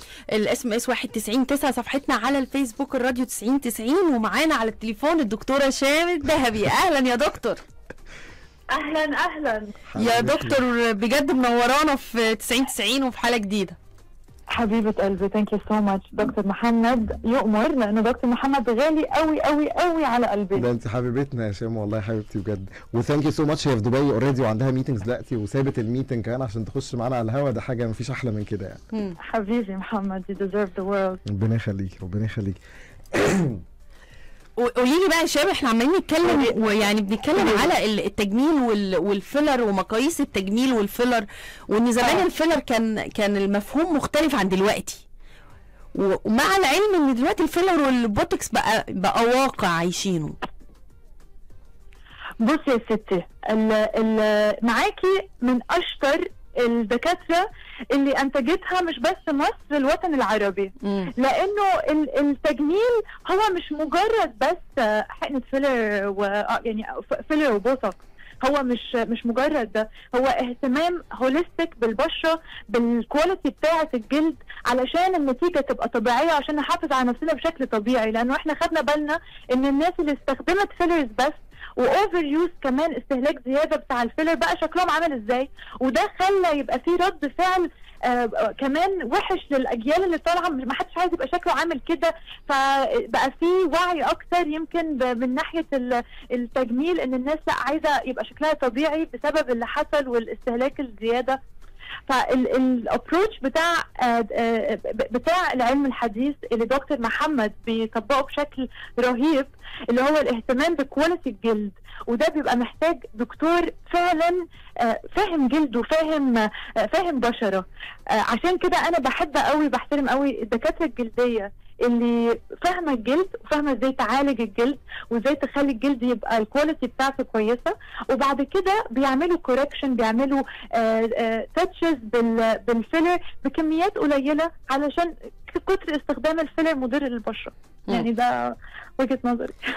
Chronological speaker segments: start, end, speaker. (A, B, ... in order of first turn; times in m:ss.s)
0:00.3-0:07.6 A
0:08.7-0:09.8 B
0:09.9-0:10.6 C
0:10.0-0:13.8 A
0:14.5-0:20.6 B
0:20.5-0:28.8 C
0:28.9-0:29.2 A
0:29.2-0:31.2 B
0:31.2-0:32.6 C
0:33.1-0:33.6 C
0:34.6-0:45.0 A
0:36.3-0:36.5 B
0:37.4-0:37.6 B
0:45.9-0:50.4 A
0:52.4-1:41.4 B
1:00.8-1:01.1 A
1:42.1-1:57.6 B
1:58.3-2:19.6 B